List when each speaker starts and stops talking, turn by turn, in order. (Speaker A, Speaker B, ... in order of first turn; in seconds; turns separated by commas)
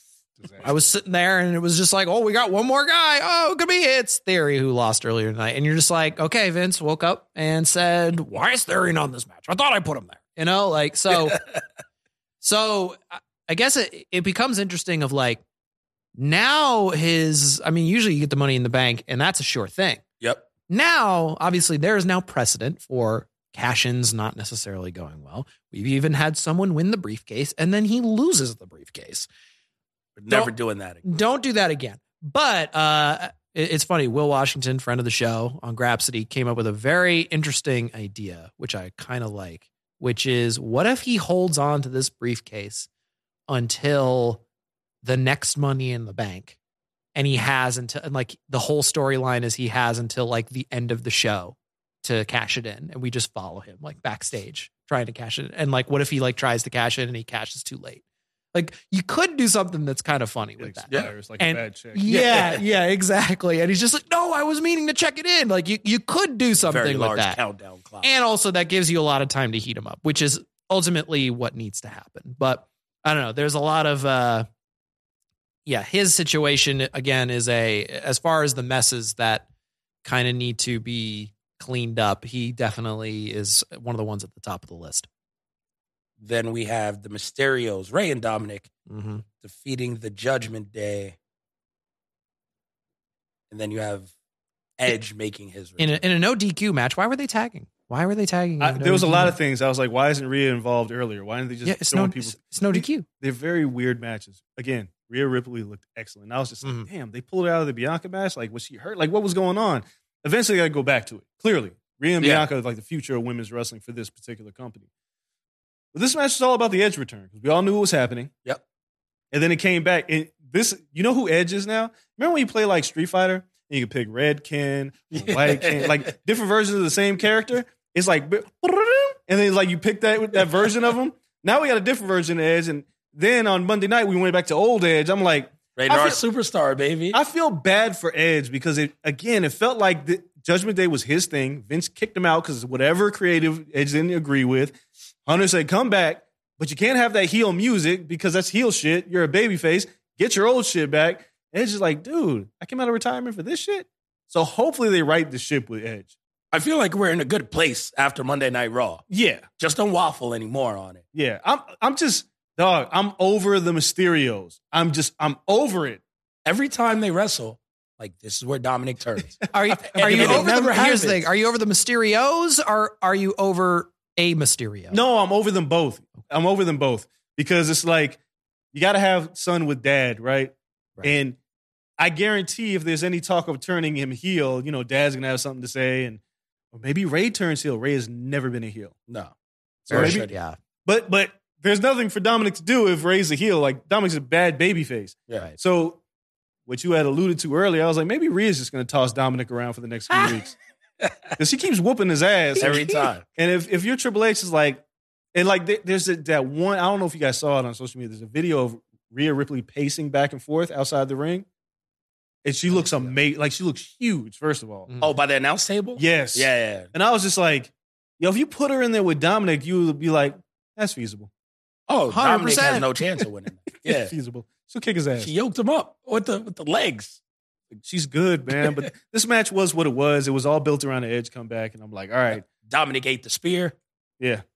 Speaker A: 0.4-0.7, Speaker B: 0.6-11.4, Speaker C: 11.3-11.6, Speaker B: 12.4-15.4, Speaker B: 16.1-20.0, Speaker C: 20.2-20.5, Speaker B: 20.7-29.3, Speaker C: 30.2-31.0, Speaker B: 31.0-42.9, Speaker B: 43.5-44.4, Speaker B: 45.0-46.5, Speaker B: 47.1-58.0, Speaker B: 58.5-67.4, Speaker A: 60.6-62.2, Speaker C: 62.1-62.6, Speaker C: 66.6-68.1, Speaker B: 68.0-74.5, Speaker B: 75.7-79.5, Speaker B: 80.0-85.1, Speaker C: 86.2-88.7, Speaker B: 88.9-89.2, Speaker C: 89.4-91.2, Speaker C: 93.5-94.1, Speaker C: 94.8-96.0, Speaker B: 95.8-99.4, Speaker A: 98.6-114.9, Speaker B: 101.6-103.0, Speaker B: 106.6-106.9, Speaker C: 112.2-112.5, Speaker A: 115.9-118.3, Speaker A: 119.3-136.2, Speaker C: 125.1-126.1, Speaker C: 135.8-137.2, Speaker A: 137.1-156.1, Speaker C: 156.5-159.1, Speaker A: 159.1-159.4, Speaker C: 159.6-161.0, Speaker A: 161.1-166.0, Speaker C: 166.4-171.2, Speaker B: 169.5-175.0, Speaker A: 169.6-171.0, Speaker A: 174.9-178.2, Speaker A: 178.7-181.4, Speaker A: 182.0-186.2, Speaker A: 186.7-188.9, Speaker C: 189.1-189.3, Speaker C: 189.9-190.3, Speaker A: 189.9-190.3, Speaker B: 189.9-190.6, Speaker A: 190.8-196.0, Speaker A: 196.7-200.5, Speaker C: 200.1-200.4, Speaker C: 201.0-201.3, Speaker A: 201.4-204.8, Speaker B: 202.6-203.0, Speaker C: 202.6-203.2, Speaker A: 205.3-211.4, Speaker A: 212.4-214.9, Speaker C: 212.7-213.2, Speaker C: 215.0-216.9, Speaker A: 216.0-221.3, Speaker C: 221.9-224.1, Speaker B: 222.1-222.9, Speaker A: 223.8-225.3, Speaker C: 225.2-227.2, Speaker A: 227.8-232.4, Speaker C: 228.6-228.8, Speaker C: 232.3-233.7